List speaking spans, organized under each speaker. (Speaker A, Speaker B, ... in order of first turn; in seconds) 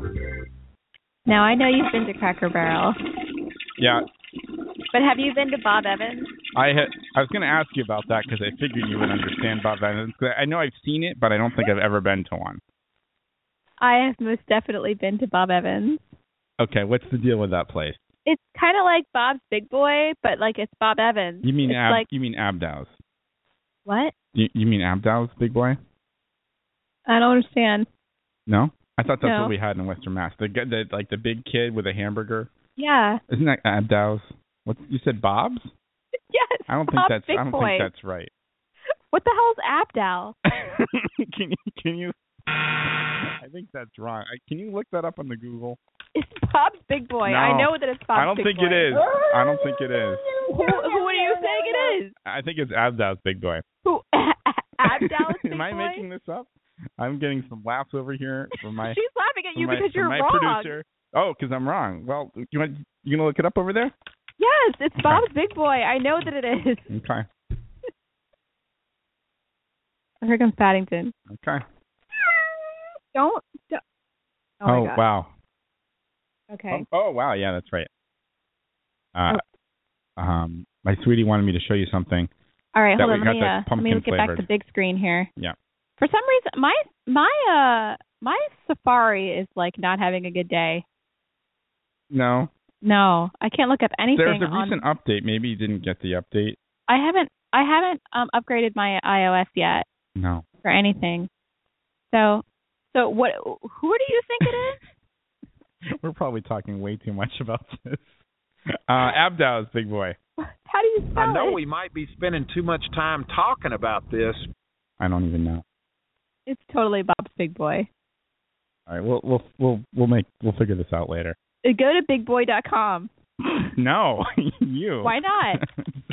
Speaker A: 1.3-3.0, 4.9-6.3, 13.8-16.1, 18.2-22.1, 23.9-24.1, 27.1-27.9, 29.2-29.5, 32.8-33.2, 36.3-37.9, 39.1-40.4, 46.1-49.0, 50.5-52.1, 53.8-56.1, 58.7-60.7, 64.4-66.9, 70.2-71.1, 73.1-73.8, 74.6-75.0, 76.5-76.8, 82.7-85.3, 86.0-90.8, 92.8-94.8, 96.9-99.8, 100.6-101.3, 102.1-104.8, 110.4-111.6, 116.5-117.9, 121.6-123.1, 125.0-125.6
Speaker B: 3.8-4.0, 6.5-12.6, 16.6-18.0, 21.4-23.0, 24.3-25.8, 28.5-32.5, 33.3-35.7, 36.7-38.3, 40.5-42.1, 43.2-45.8, 47.2-50.2, 52.2-53.6, 54.8-59.0, 59.5-63.9, 66.9-67.2, 71.3-71.6, 74.6-75.3, 76.7-77.9, 79.1-79.4, 80.2-82.3, 83.0-84.5, 92.1-92.5, 94.1-96.6, 100.2-100.4, 105.8-108.2, 108.9-110.2, 115.0-115.6, 118.9-121.3, 123.7-125.9
Speaker C: 111.1-114.5